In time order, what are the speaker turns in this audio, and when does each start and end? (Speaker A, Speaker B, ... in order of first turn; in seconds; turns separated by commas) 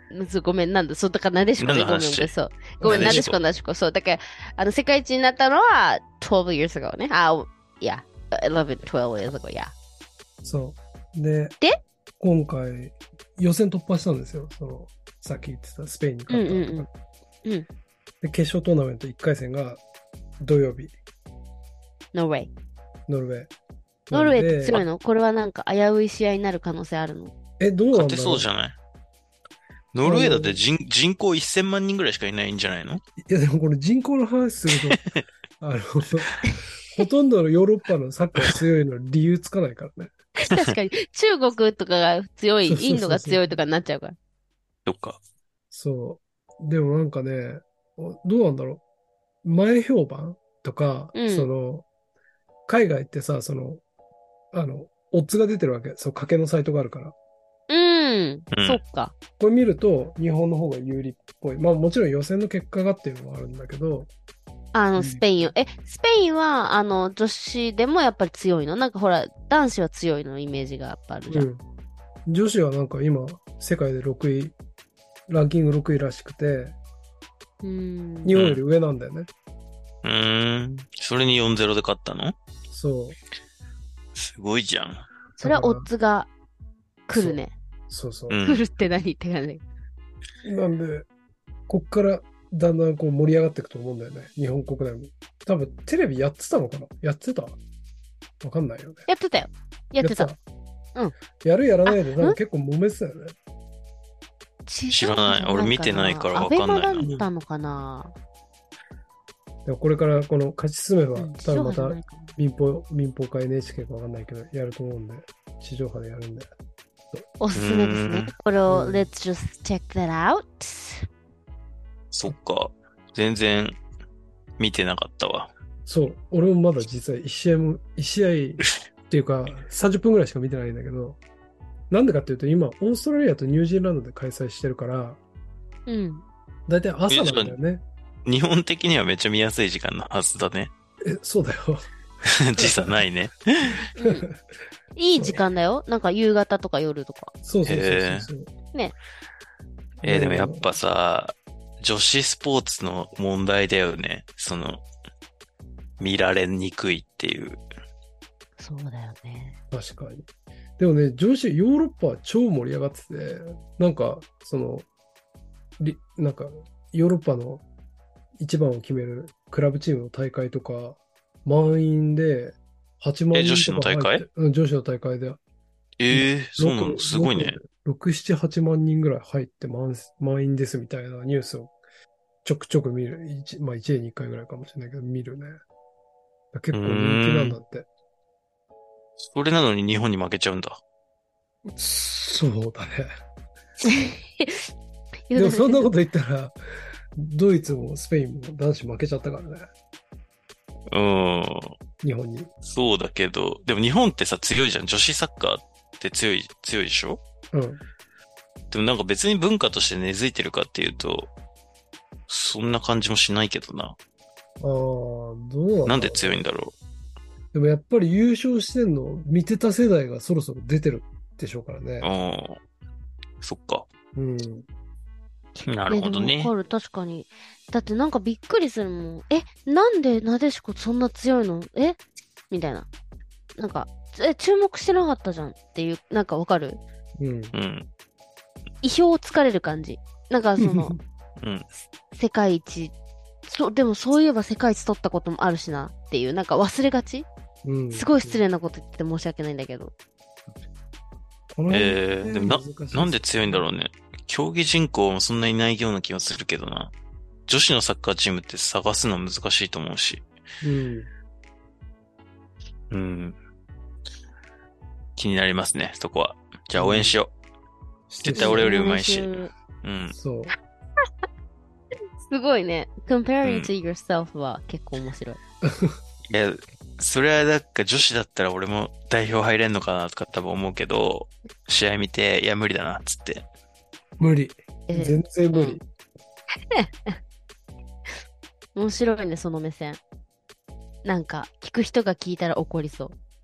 Speaker A: 0.1-9.7, Speaker B: 1.6-3.4, Speaker C: 2.8-3.3, Speaker C: 10.4-11.6, Speaker C: 12.2-16.9, Speaker A: 16.3-16.9, Speaker C: 18.2-19.8, Speaker C: 20.4-20.9, Speaker A: 22.1-22.5, Speaker C: 23.1-23.5, Speaker C: 24.1-24.8, Speaker A: 24.1-27.3, Speaker C: 27.6-28.5, Speaker B: 27.9-28.7, Speaker B: 29.9-33.0, Speaker C: 30.0-30.6, Speaker C: 33.2-35.0, Speaker B: 34.9-35.2, Speaker C: 35.6-36.3, Speaker C: 36.9-40.1, Speaker A: 40.4-44.1, Speaker C: 42.6-43.5, Speaker B: 44.9-45.2, Speaker C: 45.7-48.8, Speaker C: 49.4-51.9, Speaker A: 51.1-51.5, Speaker C: 52.7-53.8, Speaker C: 54.5-57.1, Speaker A: 57.7-59.1, Speaker B: 58.5-58.8, Speaker C: 59.4-64.1, Speaker A: 64.7-71.5, Speaker C: 65.0-65.5, Speaker C: 71.3-71.6, Speaker C: 72.2-74.5, Speaker C: 75.3-76.8, Speaker A: 77.6-78.3, Speaker C: 78.2-79.3, Speaker B: 78.3-78.6, Speaker B: 80.0-82.3, Speaker C: 82.7-83.2, Speaker B: 84.1-85.0, Speaker A: 85.4-86.3, Speaker C: 85.4-85.9, Speaker A: 87.1-87.5, Speaker C: 87.1-88.4, Speaker B: 88.3-88.7, Speaker A: 88.4-89.6, Speaker C: 90.4-91.1, Speaker C: 91.7-97.6, Speaker C: 98.4-99.0, Speaker A: 99.1-100.3, Speaker C: 100.0-100.4, Speaker C: 101.4-103.3, Speaker A: 101.8-102.4, Speaker A: 104.7-108.1, Speaker B: 104.9-107.2, Speaker C: 107.0-107.3, Speaker C: 109.6-116.5, Speaker A: 111.2-112.3, Speaker A: 117.4-121.0, Speaker B: 117.5-118.3, Speaker C: 118.7-119.1, Speaker B: 122.1-123.8, Speaker B: 124.6-125.5, Speaker C: 125.8-131.2, Speaker C: 131.9-135.2, Speaker A: 135.9-136.2, Speaker C: 136.7-137.8, Speaker B: 137.1-137.6, Speaker B: 138.2-140.7, Speaker C: 141.0-141.8, Speaker B: 142.2-143.8, Speaker C: 142.6-143.0, Speaker A: 144.0-144.2, Speaker C: 144.0-144.3, Speaker A: 144.9-147.3, Speaker C: 145.2-145.4, Speaker C: 147.4-148.5, Speaker B: 147.7-148.3, Speaker C: 150.0-150.7, Speaker B: 150.0-154.8, Speaker B: 156.0-157.6, Speaker A: 158.6-159.6, Speaker C: 159.7-160.2, Speaker C: 160.8-164.8, Speaker C: 165.8-167.6, Speaker C: 168.4-175.4, Speaker B: 173.3-174.2, Speaker B: 176.0-177.6, Speaker C: 176.1-181.7, Speaker C: 182.4-185.6, Speaker C: 186.5-187.8, Speaker B: 186.7-187.6, Speaker B: 189.2-190.8, Speaker C: 191.7-193.1, Speaker A: 193.8-194.7, Speaker A: 195.3-195.9, Speaker C: 195.3-196.5, Speaker C: 197.2-199.7, Speaker B: 200.9-201.8, Speaker C: 202.0-202.5, Speaker B: 202.6-207.2, Speaker C: 207.5-207.8, Speaker B: 208.7-211.3, Speaker B: 212.3-213.9, Speaker C: 214.6-216.4, Speaker B: 215.8-216.7, Speaker C: 217.5-222.1, Speaker B: 222.0-222.6, Speaker B: 223.4-223.8, Speaker C: 224.1-224.7, Speaker A: 225.6-232.0, Speaker B: 225.7-226.5, Speaker A: 232.5-232.9, Speaker A: 233.6-236.8, Speaker C: 237.2-237.5, Speaker B: 237.5-237.9, Speaker A: 238.8-241.0, Speaker C: 240.6-241.0, Speaker B: 241.4-241.7, Speaker A: 242.1-242.9, Speaker A: 243.4-247.3, Speaker C: 247.6-248.4, Speaker A: 247.9-249.9, Speaker C: 251.5-253.6, Speaker B: 251.7-256.9, Speaker B: 257.5-260.2, Speaker C: 260.6-261.1, Speaker B: 262.9-263.4, Speaker B: 265.1-267.3, Speaker C: 266.8-267.2, Speaker C: 268.1-268.7, Speaker B: 268.2-270.1, Speaker A: 268.3-269.5, Speaker C: 270.1-270.5, Speaker A: 272.2-275.4, Speaker B: 273.4-273.7, Speaker C: 275.6-275.9, Speaker B: 276.3-283.4, Speaker C: 284.2-285.8, Speaker A: 284.9-285.8, Speaker A: 286.7-287.2, Speaker A: 288.7-290.0, Speaker A: 291.0-293.1